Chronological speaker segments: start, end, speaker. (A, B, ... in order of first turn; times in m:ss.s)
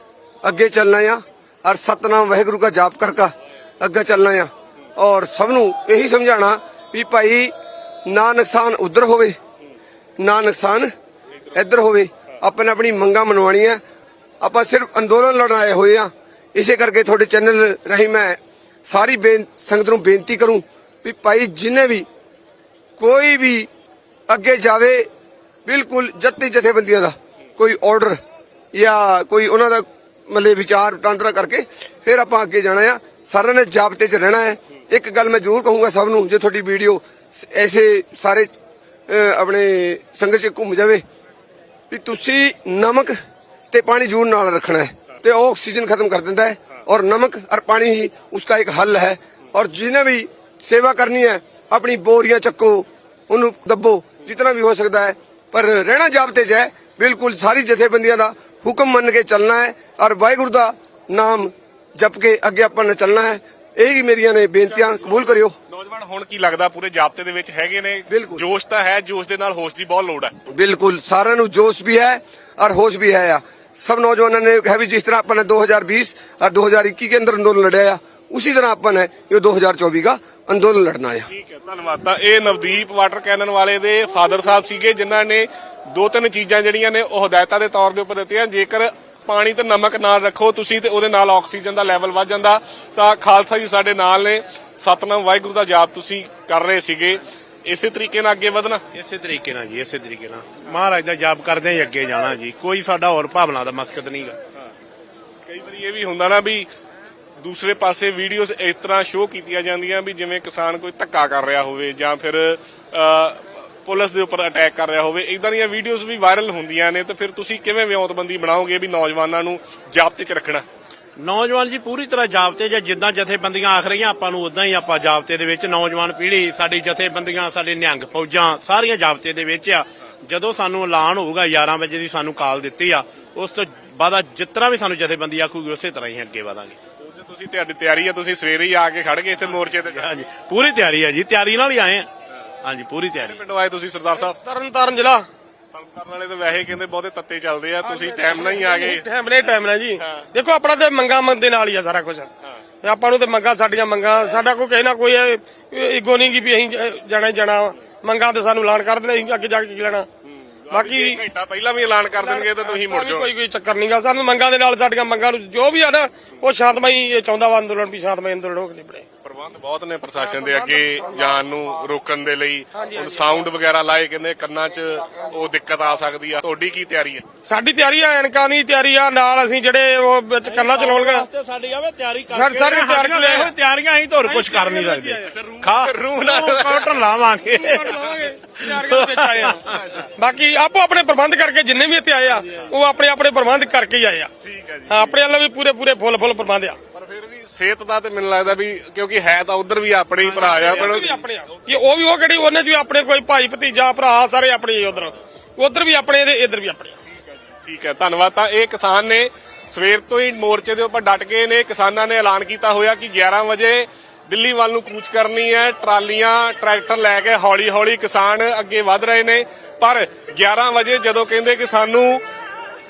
0:00.4-0:07.5 A
0:08.1-0:09.4 A
0:10.2-0:10.9 A
0:11.5-0:13.8 A
0:14.4-0:22.1 A
0:23.0-0:23.7 A
0:24.3-0:25.1 A
0:25.6-0:28.2 A
0:28.7-0:38.5 A
0:39.1-0:41.0 A
0:41.9-0:43.2 A
0:43.7-1:05.6 A
1:05.0-1:10.3 B
1:08.1-1:08.4 A
1:10.5-1:21.3 A
1:21.3-1:38.8 B
1:38.9-1:44.4 C
1:45.5-1:46.7 B
1:47.4-2:00.6 B
2:01.2-2:16.8 C
2:17.0-2:20.2 B
2:19.8-2:22.1 C
2:22.6-2:23.4 C
2:23.2-2:24.4 B
2:24.4-2:25.2 D
2:25.7-2:29.1 B
2:27.8-2:32.3 D
2:30.0-2:30.3 B
2:32.8-2:40.1 D
2:40.2-2:43.3 B
2:40.7-2:41.2 D
2:42.2-2:49.1 D
2:49.2-2:57.2 B
2:50.2-2:51.1 D
2:52.8-2:53.3 D
2:57.4-3:01.3 D
3:00.4-3:09.6 C
3:02.3-3:03.5 D
3:04.2-3:05.3 D
3:05.2-3:07.0 B
3:07.5-3:14.3 D
3:09.7-3:10.1 B
3:14.4-3:15.1 B
3:14.9-3:16.8 D
3:16.9-3:21.7 B
3:20.3-3:27.0 D
3:20.3-3:21.2 C
3:27.3-3:42.2 B